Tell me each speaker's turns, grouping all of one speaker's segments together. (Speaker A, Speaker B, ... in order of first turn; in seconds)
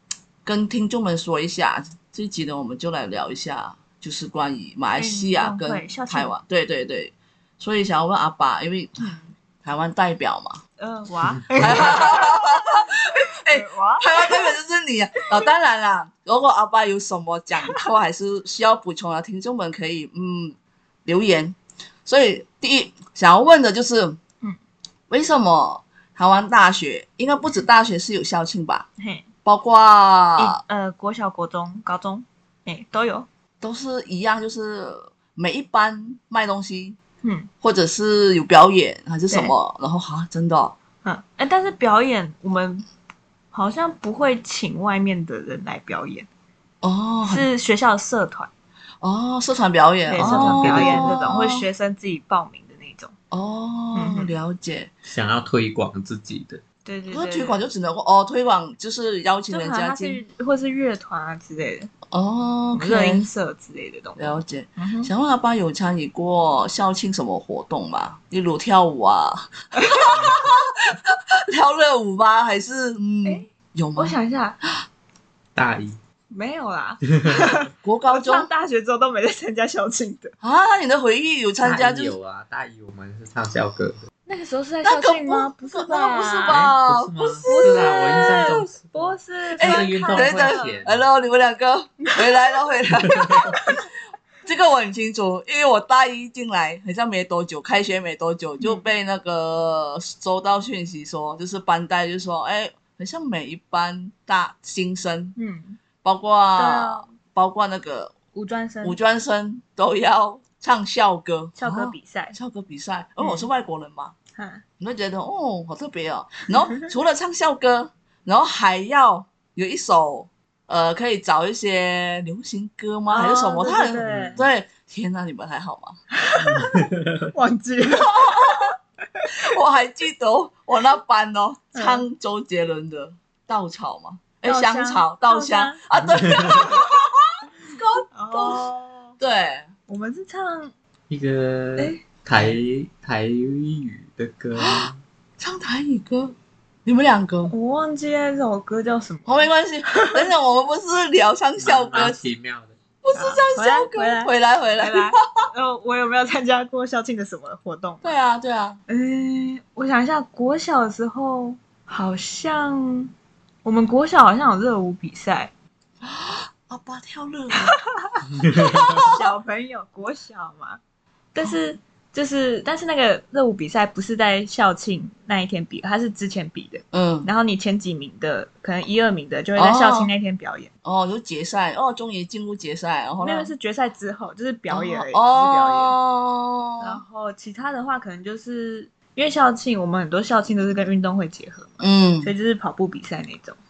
Speaker A: 0.4-10.6, 11.6-24.2, 25.1-28.9, 29.4-30.6, 33.6-37.0, 37.6-40.8, 46.8-47.5, 49.0-51.6, 53.3-54.9, 57.1-60.2, 62.1-63.3, 64.2-74.2, 77.8-78.5, 80.4-82.1, 84.8-87.8, 89.6-93.8, 94.4-105.3, 106.0-108.1, 108.8-114.1, 114.8-126.0, 127.8-128.7, 129.4-137.1, 137.7-138.7, 139.2-139.7, 144.6-144.9, 145.4-147.5, 149.3-152.2, 153.0-155.1, 158.0-158.8, 166.0-167.7, 168.4-169.1, 176.9-177.3, 179.6-180.1, 180.8-183.5, 184.7-187.0, 191.8-192.3
Speaker B: 5.0-6.3, 9.0-9.3, 10.8-14.5, 29.0-29.2, 30.4-33.3, 37.2-37.5, 41.0-42.8, 43.5-46.3, 47.2-48.5, 50.1-53.1, 53.9-54.3, 56.8-57.6, 59.5-61.9, 62.7-65.1, 69.8-70.1, 73.2-74.6, 76.3-80.3, 84.2-86.7, 87.5-90.8, 92.0-92.5, 98.6-98.9, 105.4-105.8, 106.5-107.1, 108.3-109.0, 111.5-112.4, 113.2-113.5, 114.3-114.6, 123.1-124.4, 126.1-129.3, 131.7-132.1, 134.4-135.8, 138.1-139.2, 139.9-140.7, 141.8-142.0, 147.5-150.2, 153.1-158.2, 158.9-163.1, 163.6-165.5, 167.5-168.2, 169.0-170.8, 171.3-180.7, 183.2-186.0, 186.8-193.6
Speaker C: 50.2-51.2, 55.1-56.6, 75.5-76.0, 77.2-77.4, 81.6-84.0, 86.5-91.1, 93.2-93.4, 124.1-124.5, 126.4-127.3, 135.9-136.8, 141.1-145.0, 151.6-152.7, 168.3-169.0